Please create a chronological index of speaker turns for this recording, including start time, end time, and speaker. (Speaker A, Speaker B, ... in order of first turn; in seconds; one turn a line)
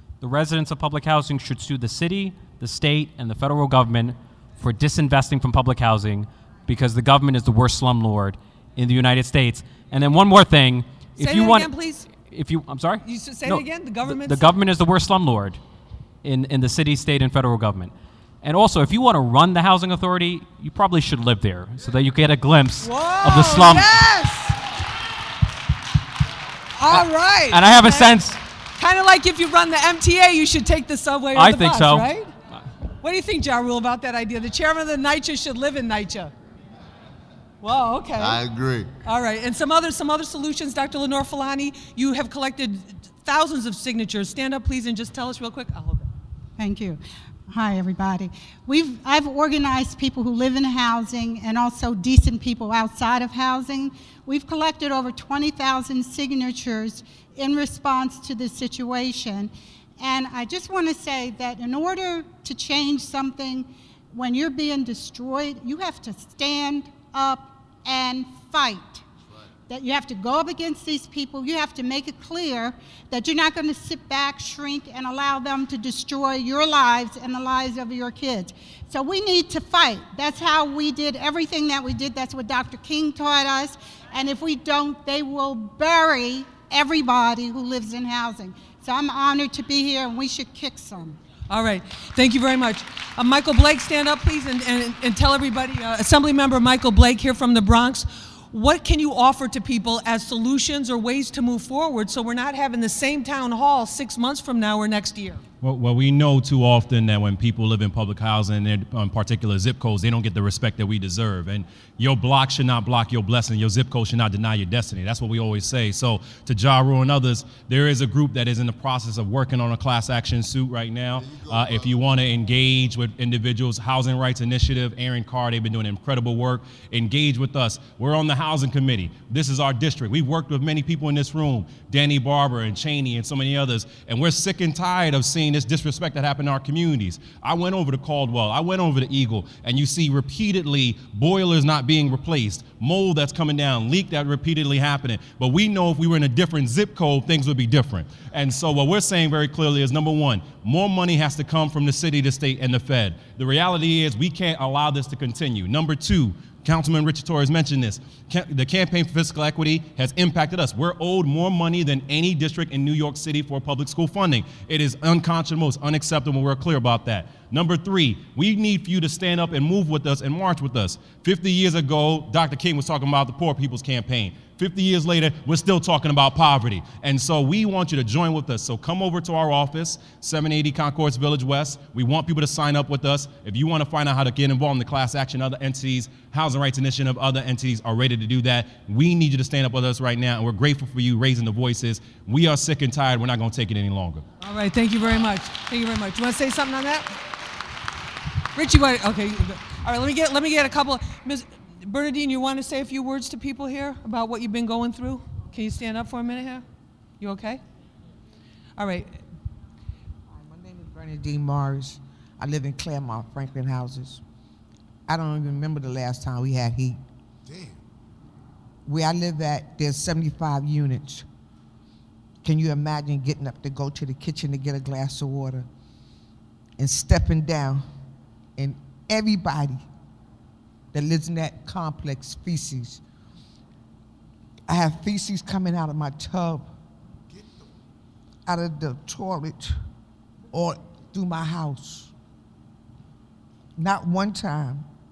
Speaker A: 0.2-15.6
Speaker B: 11.2-12.1
Speaker B: 13.0-14.5
Speaker A: 16.2-23.9
Speaker B: 22.8-24.6
Speaker B: 26.8-28.1
Speaker A: 26.9-28.4
Speaker B: 28.8-32.3
Speaker A: 31.3-32.5
Speaker B: 33.0-36.3
Speaker B: 37.6-38.4
Speaker C: 38.2-38.9
Speaker B: 39.0-46.1
Speaker D: 46.6-69.0
Speaker D: 69.7-91.2
Speaker B: 91.5-105.4
Speaker E: 105.6-194.2
Speaker C: 121.1-122.0
Speaker B: 194.4-197.1
Speaker B: 198.5-206.6
Speaker B: 207.2-207.6
Speaker B: 208.8-209.2
Speaker F: 210.3-214.2
Speaker F: 215.1-217.0
Speaker C: 217.4-217.8
Speaker F: 218.8-221.2
Speaker F: 222.4-225.7
Speaker F: 226.8-227.9
Speaker F: 228.6-229.8
Speaker F: 230.9-233.0
Speaker F: 234.7-236.7
Speaker C: 237.3-237.7
Speaker F: 238.4-239.7
Speaker F: 240.5-242.1
Speaker F: 243.8-244.8